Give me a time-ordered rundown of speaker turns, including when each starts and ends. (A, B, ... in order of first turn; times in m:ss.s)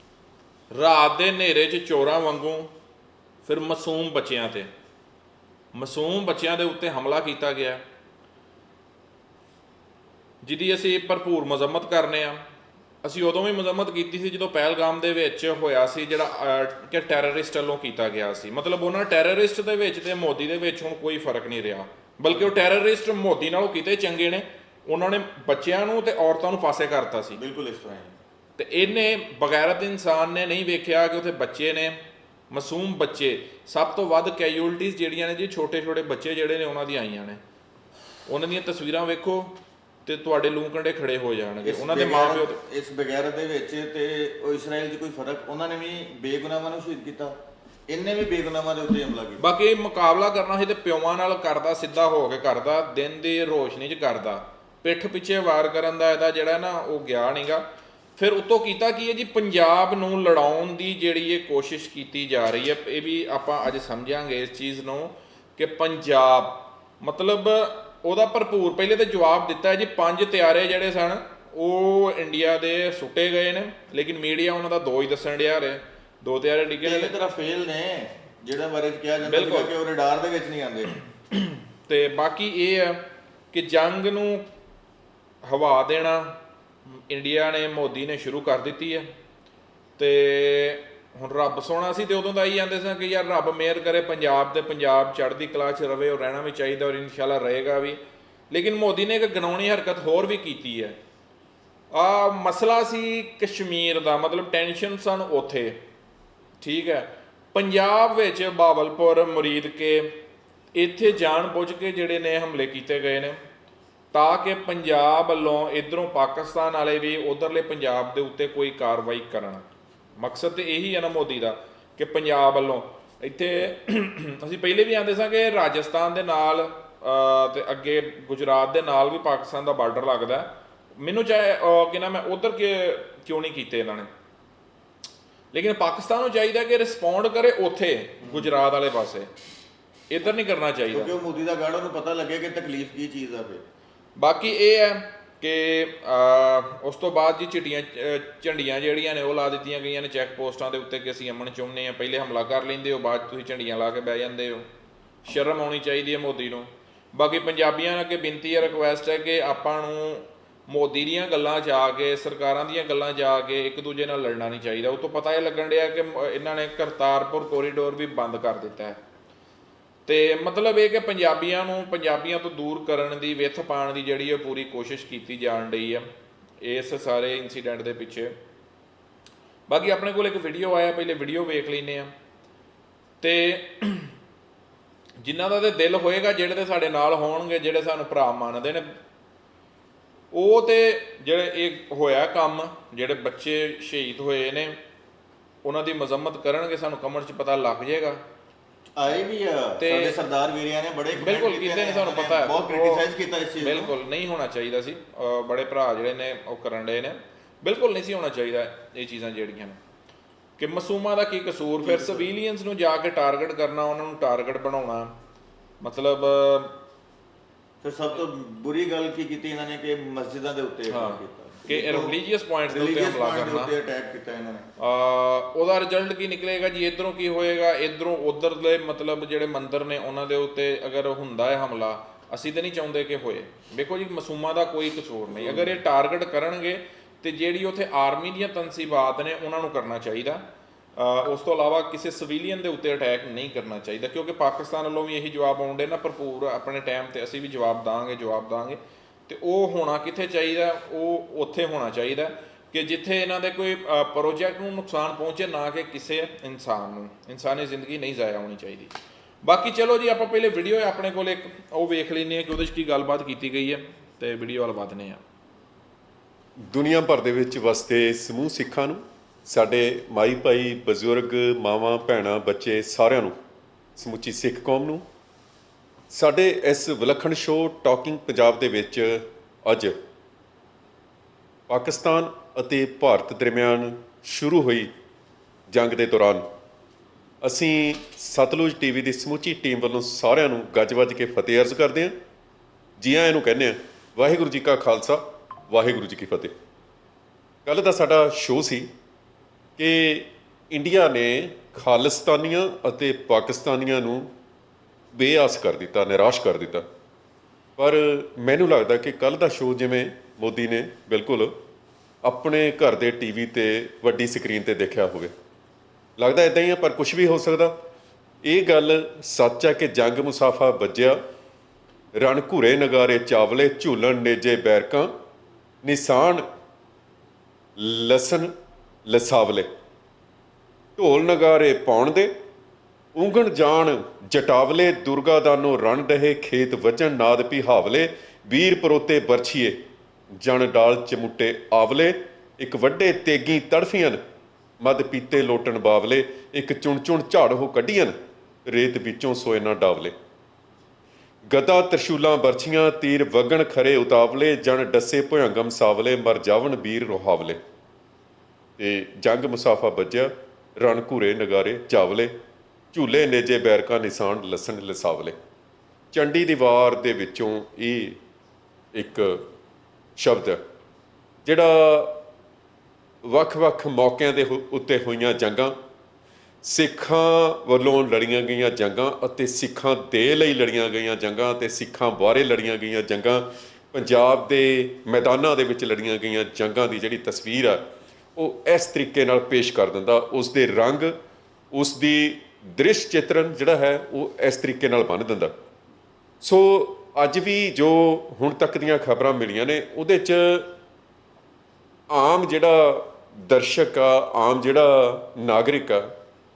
0:00.7-0:02.7 A
0:03.4-0:04.7 A
0:05.7-0:07.8 A
0:10.4-0:12.4 A
0:13.0-0:27.4 A
0:27.4-0:28.2 B
0:28.6-0:37.4 A
0:38.3-0:42.6 A
0:41.6-0:47.4 B
0:47.9-0:49.4 B
0:49.4-0:57.7 A
0:58.2-1:17.1 A
1:16.8-1:21.0 B
1:19.2-1:19.7 A
1:21.4-1:24.5 A
1:25.4-1:26.4 A
1:26.9-1:29.1 A
1:30.0-1:38.0 A
1:38.5-1:41.0 A
1:41.9-1:45.8 A
1:46.6-1:50.2 A
1:50.7-1:53.4 A
1:54.1-2:14.1 A
2:15.5-2:19.3 A
2:18.2-2:18.5 B
2:20.1-2:21.1 A
2:20.9-2:23.6 B
2:24.2-2:34.7 A
2:35.2-2:49.0 A
2:50.1-2:56.1 A
2:56.6-2:58.4 A
2:59.7-3:02.1 A
3:03.2-3:04.1 A
3:05.2-3:08.9 A
3:10.3-3:14.8 A
3:15.6-3:18.2 A
3:19.0-3:23.9 B
3:19.8-3:20.2 A
3:21.2-3:23.0 A
3:23.6-3:29.8 A
3:30.6-3:35.2 A
3:31.8-3:32.3 B
3:35.8-3:36.8 A
3:37.8-3:42.1 B
3:40.9-3:43.7 A
3:42.7-3:44.7 B
3:44.8-4:25.2 A
3:55.4-3:55.7 B
4:26.6-4:33.4 C
4:34.0-4:35.0 C
4:36.1-4:40.0 C
4:41.7-4:44.9 C
4:45.7-4:46.5 C
4:47.4-4:52.2 C
4:53.0-4:56.5 C
4:57.7-4:58.9 C
4:59.8-5:04.3 C
5:05.1-5:06.8 C
5:07.8-5:11.5 C
5:12.2-5:15.3 C
5:16.2-5:17.7 C
5:18.4-5:21.2 C
5:22.2-5:25.1 C
5:25.8-5:26.5 C
5:27.8-5:28.5 C
5:29.1-5:29.7 C
5:31.0-5:32.3 C
5:33.2-5:39.8 C
5:40.4-5:44.2 C
5:44.8-5:50.2 C
5:51.5-5:57.6 C
5:58.8-6:02.3 C
6:02.9-6:05.4 C
6:06.1-6:08.2 C
6:08.9-6:09.4 C
6:10.2-6:10.6 C
6:11.4-6:12.2 C
6:13.2-6:15.8 C
6:16.6-6:27.8 C
6:28.4-6:31.2 C
6:31.7-6:35.5 C
6:36.4-6:40.7 C
6:42.1-6:46.1 C